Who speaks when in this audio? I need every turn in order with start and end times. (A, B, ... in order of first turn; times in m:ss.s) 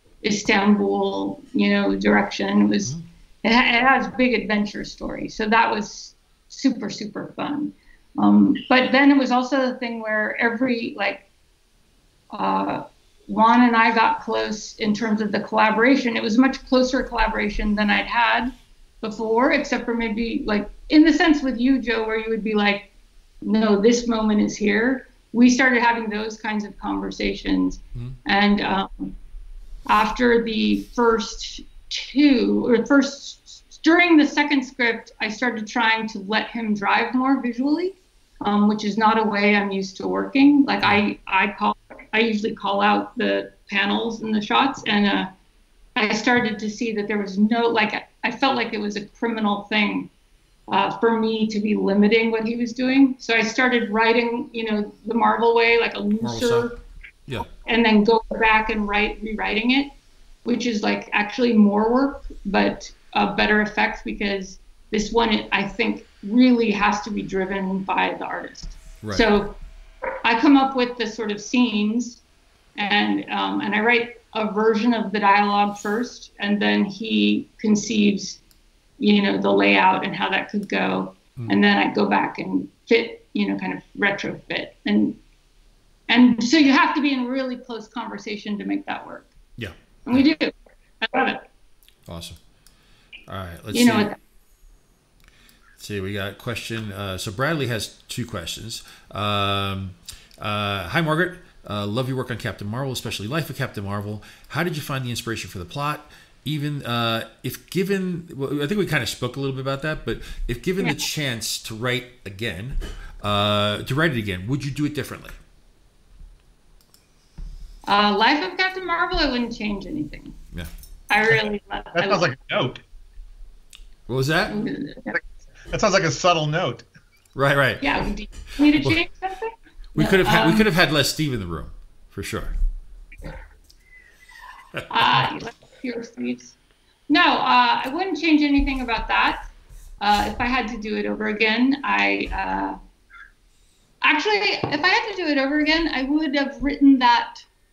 0:00.2-0:11.2 A
0:12.3-0:22.9 A
0:23.4-0:29.1 A
0:29.9-0:45.3 A
0:46.0-0:50.1 A
0:50.7-0:56.8 A
0:56.2-0:56.7 B
0:57.4-0:59.9 A
1:00.4-1:09.6 A
1:09.0-1:09.3 B
1:10.2-1:12.2 A
1:12.8-1:18.4 A
1:19.0-1:25.2 A
1:26.1-1:29.3 A
1:29.6-1:30.2 B
1:30.1-1:31.4 A
1:32.1-1:32.4 B
1:33.3-1:34.1 B
1:33.7-1:34.2 A
1:35.8-1:55.4 B
1:50.8-1:51.0 A
1:57.9-2:00.4 A
2:01.1-2:02.3 A
2:01.9-2:02.8 C
2:04.1-2:04.6 B
2:04.5-2:05.2 A
2:05.7-2:06.8 C
2:07.3-2:07.9 B
2:07.8-2:10.7 A
2:09.9-2:12.5 B
2:14.8-2:15.3 B
2:14.9-2:16.6 A
2:17.1-2:19.5 A
2:20.0-2:22.8 A
2:24.0-2:27.4 A